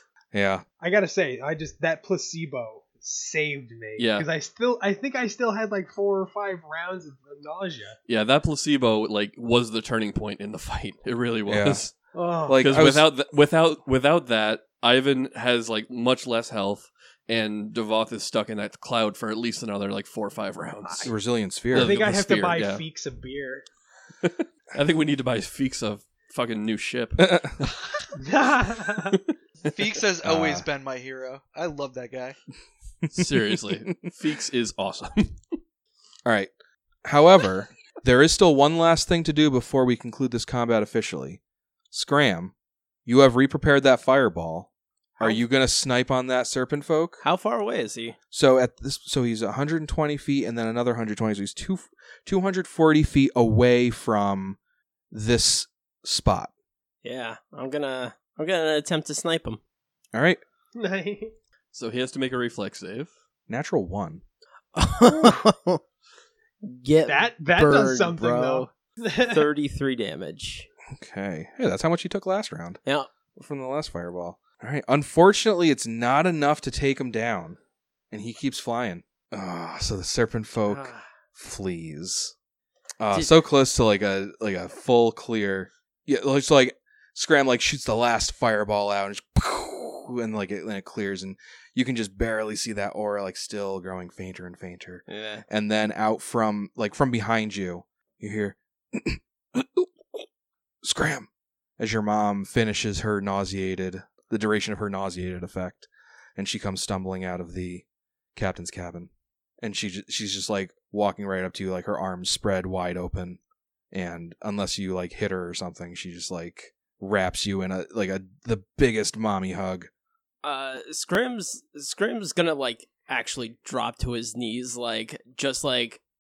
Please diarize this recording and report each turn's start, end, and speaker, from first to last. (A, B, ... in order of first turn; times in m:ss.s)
0:00.3-0:00.6 A
0:00.8-0:08.0 B
0:04.0-0:04.3 C
0:08.1-0:11.9 C
0:11.5-0:11.9 A
0:12.1-0:12.6 B
0:12.4-0:13.1 A
0:12.6-0:21.2 C
0:21.0-0:21.9 A
0:21.7-0:22.8 C
0:21.7-0:23.6 B
0:24.2-0:27.8 C
0:27.2-0:27.5 A
0:28.2-0:29.2 B
0:29.6-0:32.4 D
0:30.2-0:30.6 A
0:33.0-0:33.6 A
0:33.1-0:35.4 C
0:36.2-0:36.5 A
0:37.0-0:42.5 A
0:43.0-0:47.2 A
0:47.2-0:48.2 E
0:48.3-0:54.6 A
0:55.1-0:56.5 A
0:57.0-0:59.6 E
1:00.1-1:00.4 A
1:00.8-1:01.3 B
1:01.7-1:03.1 C
1:03.5-1:04.2 A
1:04.8-1:05.8 E
1:06.6-1:08.7 E
1:07.0-1:09.5 B
1:09.2-1:10.7 E
1:10.9-1:12.8 A
1:12.8-1:13.1 E
1:13.4-1:17.6 A
1:18.1-1:22.3 A
1:20.7-1:21.1 E
1:23.0-1:40.2 A
1:35.1-1:35.4 E
1:40.8-1:49.1 A
1:49.6-1:53.4 A
1:53.9-1:59.9 A
2:00.4-2:06.0 E